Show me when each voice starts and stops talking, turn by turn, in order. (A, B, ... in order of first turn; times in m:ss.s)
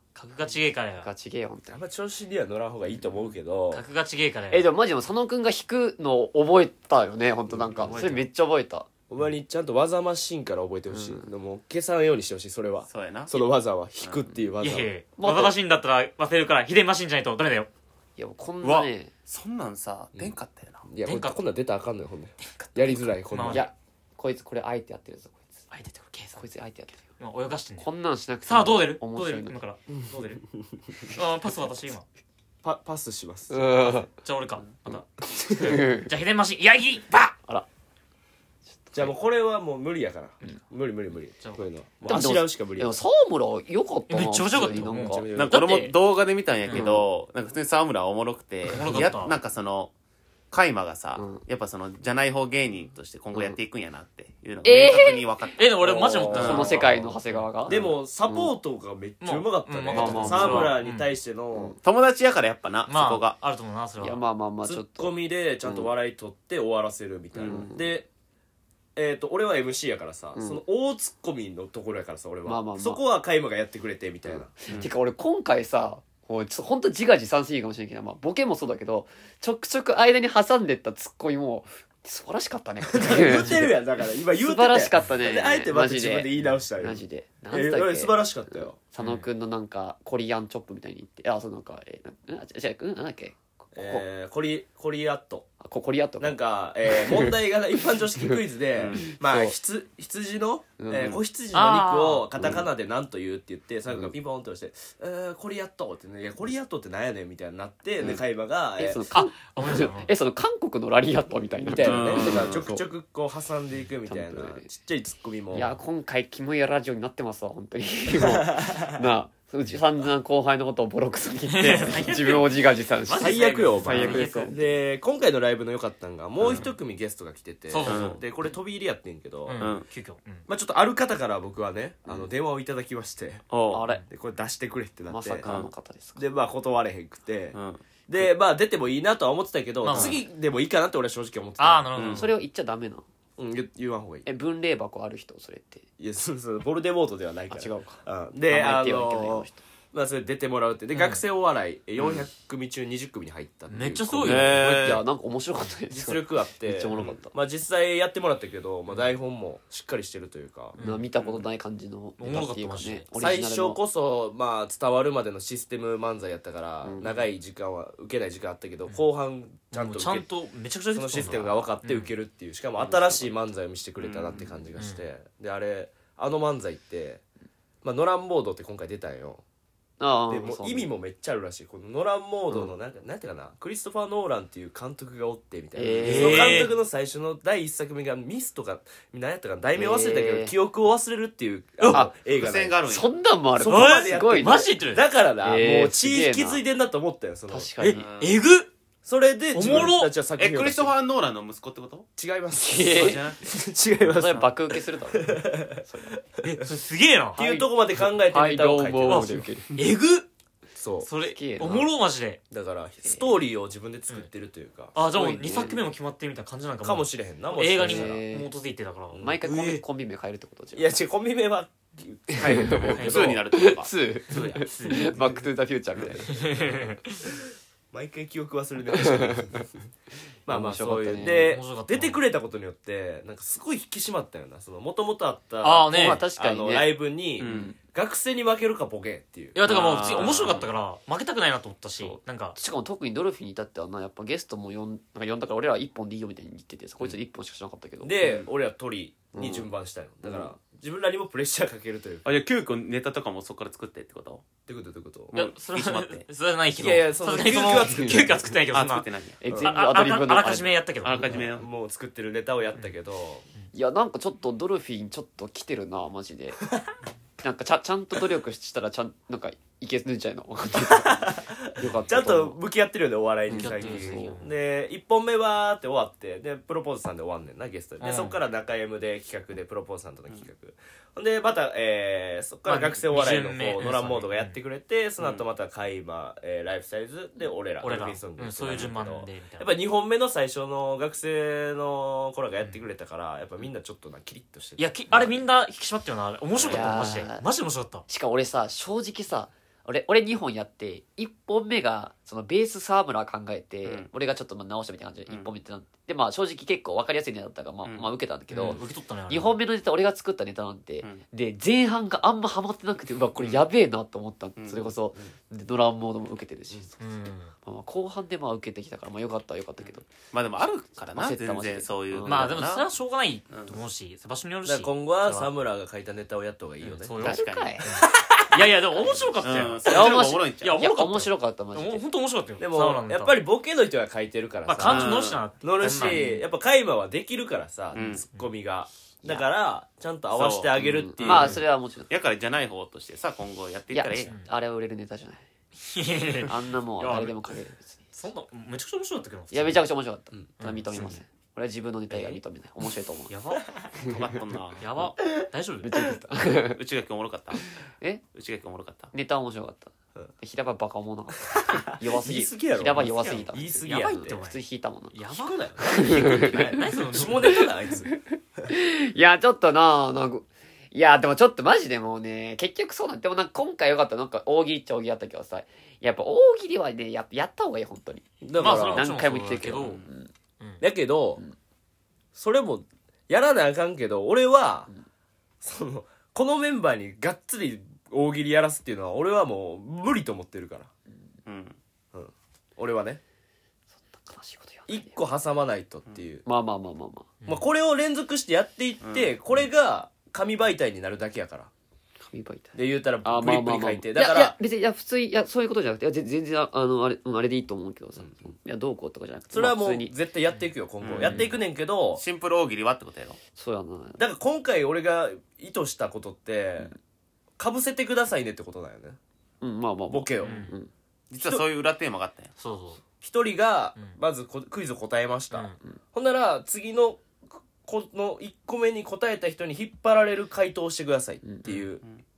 0:00.2-0:01.1 A
0:00.4-0:01.8 B
0:01.7-0:03.8 C
0:03.7-0:04.7 A
0:04.5-0:08.9 B
0:07.7-0:08.3 A
0:09.1-0:14.9 C
0:10.9-0:11.3 B
0:12.9-0:13.5 D
0:14.6-0:17.7 A
0:15.2-0:15.5 B
0:18.2-0:19.1 B
0:18.6-0:20.8 D
0:20.1-0:23.7 C
0:21.0-0:21.4 A
0:22.6-0:23.7 A
0:23.5-0:25.6 B
0:25.7-0:26.4 A
0:26.4-0:27.0 B
0:27.2-0:27.9 A
0:27.8-0:29.6 B
0:28.4-0:30.4 A
0:31.0-0:32.0 A
0:32.6-0:34.0 C
0:33.5-0:34.1 B
0:34.1-0:37.3 A
0:35.5-0:36.1 B
0:38.8-0:39.1 B
0:38.9-0:42.9 C
0:41.4-0:42.2 A
0:42.1-0:45.3 B
0:44.1-0:45.9 A
0:44.7-0:45.7 C
0:45.3-0:49.9 D
0:46.6-0:46.9 A
0:46.7-0:47.0 B
0:48.7-0:49.3 A
0:50.5-0:55.7 D
0:51.2-0:51.4 B
0:53.3-0:53.6 B
0:54.6-0:55.2 B
0:55.6-0:57.4 A
0:55.8-0:57.1 C
0:56.3-0:56.8 D
0:56.3-0:58.5 B
0:57.7-1:01.8 C
0:59.2-1:01.1 A
0:59.9-1:00.8 B
1:01.8-1:03.4 D
1:02.9-1:04.2 A
1:04.0-1:05.9 B
1:04.6-1:08.1 C
1:07.3-1:07.6 D
1:07.4-1:07.9 B
1:09.0-1:14.5 C
1:10.4-1:10.6 B
1:12.4-1:13.0 B
1:14.2-1:23.8 B
1:22.8-1:28.8 C
1:23.3-1:23.6 A
1:24.3-1:34.0 B
1:29.0-1:29.3 A
1:33.7-1:35.5 C
1:35.6-1:37.3 B
1:36.2-1:49.0 C
1:38.9-1:39.5 B
1:40.8-1:41.2 B
1:41.5-1:42.3 A
1:48.8-1:52.8 B
1:49.1-1:50.1 A
1:51.6-1:55.8 C
1:51.8-1:52.6 D
1:54.1-1:54.7 B
1:55.5-2:04.6 B
1:58.2-1:59.0 C
2:01.5-2:04.6 A
2:03.2-2:09.7 C
2:07.7-2:08.2 A
2:07.8-2:08.2 D
2:09.4-2:10.4 A
2:09.6-2:09.8 D
2:10.5-2:13.4 C
2:13.5-2:13.8 D
2:13.7-2:14.0 B
2:14.1-2:15.5 C
2:15.1-2:16.3 B
2:15.4-2:15.7 D
2:16.2-2:17.6 C
2:17.5-2:17.8 D
2:18.1-2:21.9 C
2:19.8-2:20.2 A
2:21.6-2:22.4 A
2:21.9-2:22.3 D
2:22.1-2:23.0 B
2:23.4-2:24.3 C
2:24.2-2:25.8 B
2:26.0-2:34.6 C
2:27.5-2:29.6 B
2:30.9-2:31.2 A
2:32.0-2:32.2 D
2:33.7-2:35.0 A
2:34.2-2:35.0 D
2:34.4-2:37.3 B
2:35.9-2:40.8 C
2:40.7-2:43.8 B
2:40.8-2:41.1 A
2:42.2-2:43.1 A
2:43.2-2:50.2 C
2:46.8-2:47.1 B
2:49.7-2:52.1 A
2:50.9-2:57.2 C
2:52.8-2:53.3 B
2:54.3-2:54.5 B
2:54.8-2:55.0 A
2:57.8-2:59.4 C
3:00.0-3:00.9 B
3:00.3-3:12.8 C
3:05.7-3:06.7 B
3:06.0-3:06.7 A
3:09.8-3:10.6 B
3:11.8-3:12.0 A
3:11.9-3:13.1 D
3:12.8-3:14.7 B
3:13.6-3:17.7 C
3:13.6-3:15.0 A
3:15.4-3:16.6 B
3:17.5-3:18.1 B
3:17.8-3:18.7 A
3:17.9-3:18.4 D
3:19.0-3:20.9 C
3:19.5-3:20.1 A
3:20.4-3:22.1 D
3:22.2-3:26.1 C
3:22.6-3:23.3 B
3:23.0-3:23.4 D
3:24.0-3:26.2 B
3:26.4-3:27.4 A
3:27.3-3:29.8 B
3:27.4-3:29.4 C
3:29.1-3:30.3 A
3:30.8-3:31.1 C
3:31.0-3:32.4 A
3:31.2-3:31.9 B
3:32.5-3:35.0 C
3:34.9-3:39.8 A
3:35.1-3:35.8 B
3:36.8-3:38.2 C
3:37.8-3:38.5 B
3:39.1-3:39.4 C
3:39.2-3:40.9 B
3:40.7-3:43.3 C
3:42.3-3:46.4 B
3:42.4-3:43.9 D
3:42.9-3:43.4 A
3:44.3-3:45.0 A
3:46.0-3:46.7 C
3:46.2-3:47.1 A
3:47.9-3:49.6 C
3:49.0-3:49.5 B
3:50.4-3:59.6 C
3:50.5-3:51.5 B
3:51.2-3:52.2 A
3:55.6-3:56.2 A
3:55.9-3:57.8 B
3:57.4-3:57.7 D
3:59.5-4:02.6 A
3:59.6-4:00.7 D
4:00.0-4:00.6 B
4:02.0-4:08.4 B
4:08.0-4:12.3 C
4:09.3-4:09.7 B
4:10.2-4:10.5 B
4:12.2-4:14.4 D
4:14.7-4:15.4 C
4:15.3-4:16.2 D
4:15.3-4:19.1 A
4:16.8-4:18.4 C
4:17.7-4:18.3 B
4:18.7-4:19.4 D
4:19.4-4:20.8 B
4:19.4-4:19.7 C
4:19.6-4:21.2 A
4:21.0-4:21.7 D
4:21.2-4:23.4 C
4:23.7-4:26.6 B
4:26.7-4:26.9 C
4:27.4-4:32.6 B
4:30.7-4:54.9 C
4:33.5-4:34.4 B
4:33.5-4:34.5 A
4:38.0-4:38.4 A
4:42.6-4:44.6 A
4:45.2-4:45.4 D
4:47.8-4:49.8 A
4:54.8-4:58.0 A
4:56.6-4:57.4 B
4:58.1-5:17.0 B
5:07.8-5:08.1 D
5:08.5-5:09.6 A
5:14.6-5:14.9 D
5:17.0-5:17.5 A
5:17.6-5:20.1 B
5:20.3-5:22.8 D
5:21.1-5:22.6 B
5:22.2-5:25.5 A
5:23.5-5:23.8 D
5:24.6-5:27.2 C
5:26.8-5:33.4 A
5:27.2-5:28.4 D
5:27.2-5:28.0 B
5:29.0-5:32.0 B
5:29.0-5:30.9 D
5:32.6-5:41.6 C
5:34.7-5:36.3 A
5:34.8-5:36.2 D
5:37.9-5:38.2 D
5:38.0-5:38.5 A
5:40.3-5:40.7 D
5:40.8-5:42.1 B
5:41.2-5:41.6 A
5:41.3-5:44.3 D
5:43.9-5:45.4 B
5:45.8-5:47.4 A
5:46.4-5:48.0 B
5:48.1-5:49.8 A
5:49.5-5:53.3 B
5:50.6-5:51.2 A
5:52.1-5:52.4 D
5:53.3-5:53.7 A
5:54.0-5:54.9 D
5:54.8-5:56.1 A
5:55.8-5:56.8 B
5:56.6-5:57.6 D
5:58.3-5:59.1 D
5:59.1-6:05.2 B
6:01.5-6:04.4 C
6:03.7-6:04.6 A
6:05.1-6:07.7 A
6:05.7-6:08.2 C
6:05.8-6:07.6 B
6:08.7-6:20.3 B
6:18.4-6:19.1 C
6:18.6-6:20.0 A
6:20.8-6:21.4 C
6:22.3-6:24.9 C
6:25.6-6:30.9 C
6:31.4-6:31.8 D
6:32.1-6:33.2 C
6:34.0-6:35.2 B
6:34.9-6:36.4 C
6:36.4-6:37.3 B
6:37.4-6:37.7 A
6:37.4-6:41.7 C
6:39.0-6:39.3 D
6:42.3-6:50.1 B
6:42.7-6:44.5 C
6:49.5-6:52.2 C
6:51.0-6:51.5 D
6:51.2-6:51.5 B
6:52.1-6:53.4 D
6:53.6-6:54.2 B
6:54.2-6:56.9 C
6:57.6-6:59.2 C
6:59.6-7:00.9 B
7:00.1-7:00.6 C
7:00.4-7:00.7 A
7:01.3-7:02.5 D
7:02.6-7:03.0 A
7:03.2-7:07.2 C
7:05.5-7:05.8 A
7:07.8-7:12.0 C